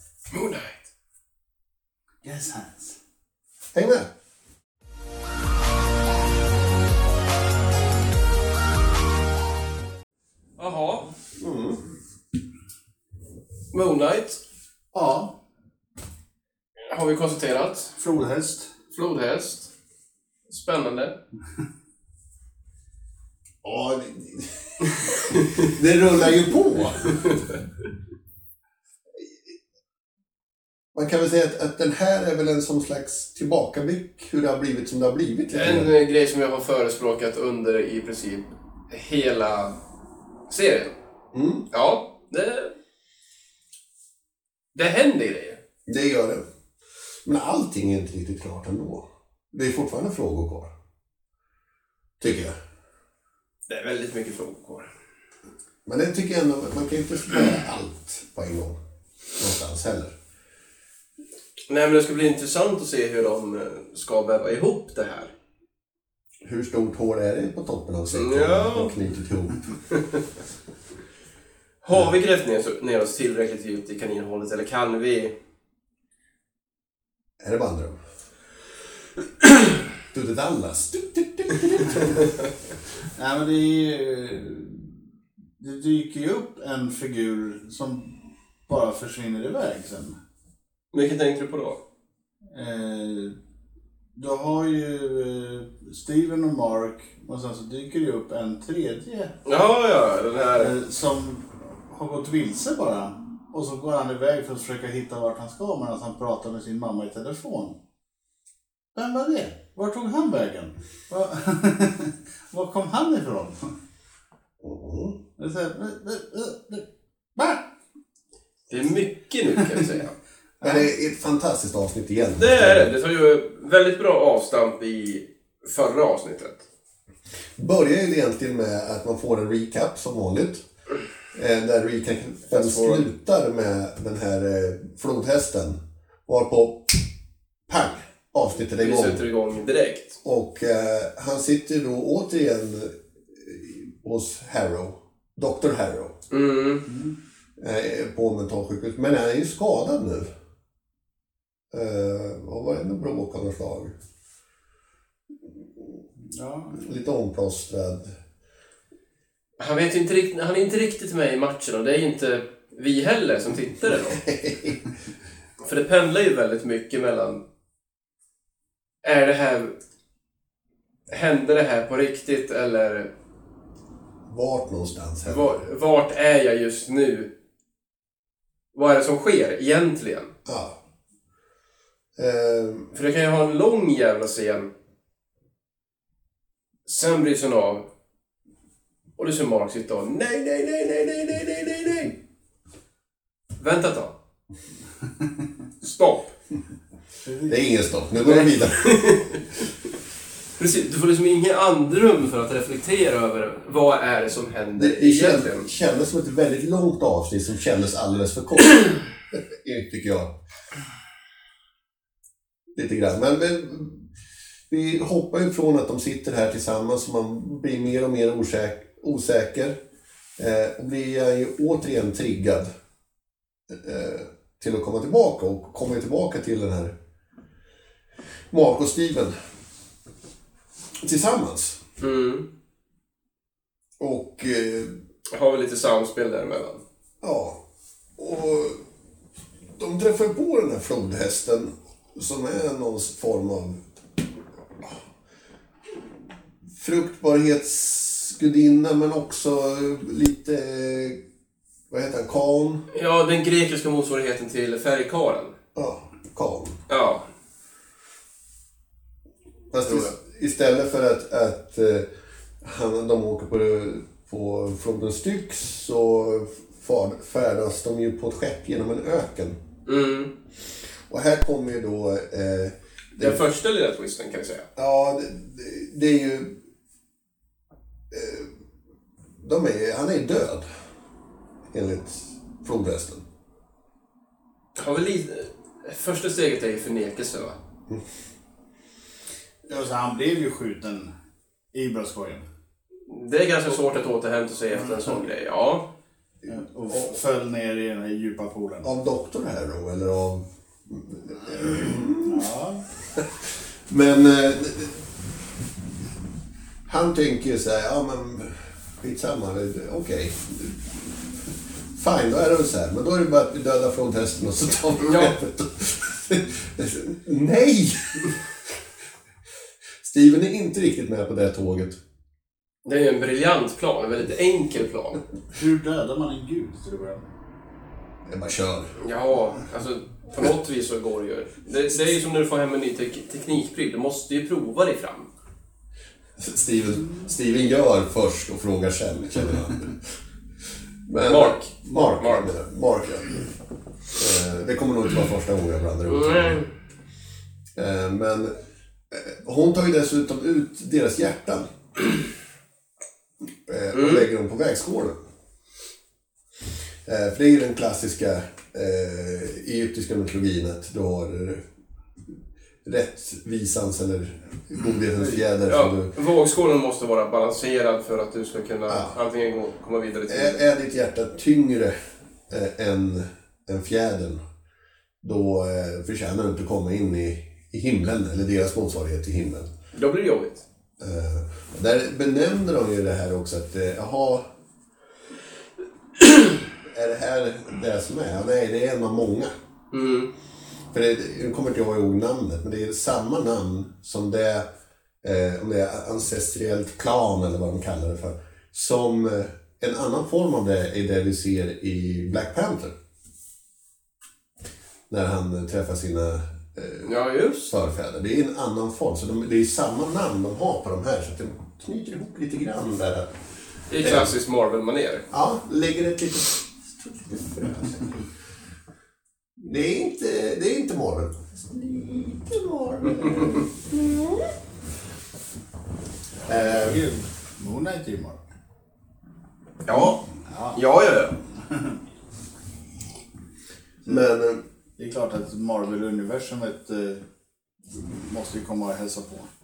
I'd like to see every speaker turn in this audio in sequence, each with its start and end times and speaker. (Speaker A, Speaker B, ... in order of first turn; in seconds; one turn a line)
Speaker A: 0.3-0.9
Speaker B: 2.2-3.0
Speaker C: 3.7-4.1
Speaker A: 10.6-11.1
Speaker C: 11.4-11.8
Speaker A: 13.7-14.4
Speaker B: 14.9-15.3
Speaker A: 16.9-18.0
Speaker B: 18.0-18.7
Speaker A: 18.9-19.7
Speaker A: 20.5-21.2
Speaker C: 23.6-27.4
Speaker A: 25.4-25.6
Speaker C: 30.9-35.9
Speaker A: 35.5-39.7
Speaker A: 40.5-40.9
Speaker C: 41.3-41.7
Speaker A: 41.7-42.7
Speaker A: 44.7-45.6
Speaker C: 45.9-46.4
Speaker C: 47.2-50.7
Speaker C: 52.2-52.5
Speaker A: 53.7-54.9
Speaker C: 55.9-58.8
Speaker C: 59.4-60.1
Speaker A: 61.7-65.3
Speaker C: 66.4-69.6
Speaker A: 68.1-68.9
Speaker A: 71.8-75.3
Speaker C: 77.4-78.0
Speaker C: 80.1-82.5
Speaker B: 83.2-85.0
Speaker B: 85.6-90.2
Speaker A: 90.9-91.8
Speaker B: 92.5-93.3
Speaker B: 94.1-99.3
Speaker A: 99.4-100.7
Speaker B: 100.5-107.8
Speaker B: 108.9-113.8
Speaker C: 114.6-115.2
Speaker B: 115.4-117.7
Speaker A: 118.7-120.1
Speaker C: 120.6-122.9
Speaker A: 122.3-126.6
Speaker C: 127.6-130.6
Speaker C: 131.3-137.0
Speaker A: 132.5-133.1
Speaker C: 137.7-139.2
Speaker A: 138.8-140.2
Speaker C: 140.2-146.1
Speaker A: 146.3-146.8
Speaker B: 146.9-147.1
Speaker C: 147.6-150.3
Speaker C: 151.7-153.9
Speaker B: 156.2-156.8
Speaker C: 156.8-158.2
Speaker A: 159.6-164.2
Speaker C: 164.2-164.8
Speaker A: 165.6-167.4
Speaker A: 169.0-169.7
Speaker A: 171.1-173.1
Speaker C: 174.3-175.6
Speaker A: 175.2-177.3
Speaker A: 178.7-180.3
Speaker C: 180.4-180.8
Speaker C: 182.2-182.9
Speaker A: 182.9-184.7
Speaker A: 186.8-187.8
Speaker A: 189.2-192.1
Speaker A: 193.6-194.1
Speaker A: 195.8-196.3
Speaker B: 197.2-197.6
Speaker C: 197.5-199.2
Speaker A: 198.2-199.7
Speaker A: 200.6-205.7
Speaker C: 204.8-208.8
Speaker A: 208.7-209.0
Speaker C: 209.3-210.3
Speaker C: 212.7-214.1
Speaker C: 214.7-219.8
Speaker C: 220.4-222.7
Speaker C: 223.7-226.9
Speaker C: 228.5-229.3
Speaker C: 231.0-231.8
Speaker A: 232.0-232.5
Speaker C: 234.0-235.0
Speaker A: 235.3-236.8
Speaker C: 237.2-237.6
Speaker C: 238.2-238.8
Speaker C: 239.8-243.8
Speaker C: 246.8-251.2
Speaker C: 251.9-252.8
Speaker A: 252.9-255.5
Speaker C: 255.7-256.8
Speaker A: 256.9-257.2
Speaker C: 259.7-262.1
Speaker A: 259.8-260.1
Speaker C: 262.6-269.6
Speaker A: 269.9-270.3
Speaker C: 271.1-273.4
Speaker A: 273.2-274.7
Speaker C: 274.8-276.5
Speaker C: 278.1-278.5
Speaker C: 279.4-280.6
Speaker C: 281.7-283.2
Speaker A: 284.8-287.6
Speaker B: 289.6-291.1
Speaker B: 291.7-292.5
Speaker A: 293.1-295.9
Speaker B: 296.5-298.9
Speaker C: 296.9-297.2
Speaker C: 298.8-305.1
Speaker B: 302.2-302.9
Speaker C: 306.9-311.0
Speaker C: 311.9-318.8
Speaker A: 315.0-315.3
Speaker C: 320.0-322.0
Speaker A: 322.8-325.2
Speaker B: 325.5-327.2
Speaker C: 328.2-328.9
Speaker A: 329.0-335.3
Speaker C: 336.4-340.0
Speaker C: 341.1-343.5
Speaker A: 341.2-342.5
Speaker C: 344.1-346.6
Speaker A: 346.1-346.7
Speaker C: 347.7-348.5
Speaker C: 349.1-351.7
Speaker C: 353.7-355.2
Speaker A: 353.9-354.2
Speaker C: 357.0-361.6
Speaker C: 362.8-366.1
Speaker A: 365.7-370.6
Speaker C: 368.9-369.1
Speaker C: 370.3-372.0
Speaker C: 372.5-374.4
Speaker C: 375.2-379.7
Speaker A: 379.9-380.6
Speaker C: 381.0-384.4
Speaker C: 386.8-389.5
Speaker A: 389.9-390.3
Speaker C: 390.9-394.7
Speaker C: 395.2-402.9
Speaker C: 405.1-407.1
Speaker A: 407.0-407.7
Speaker C: 407.6-413.4
Speaker A: 413.9-415.2
Speaker C: 414.0-414.3
Speaker C: 415.3-418.3
Speaker C: 419.6-424.6
Speaker B: 426.4-428.4
Speaker C: 426.5-427.0
Speaker A: 429.9-430.2
Speaker B: 429.9-430.8
Speaker A: 430.7-431.4
Speaker B: 431.7-432.0
Speaker C: 434.0-434.6
Speaker B: 435.0-437.2
Speaker B: 437.9-439.5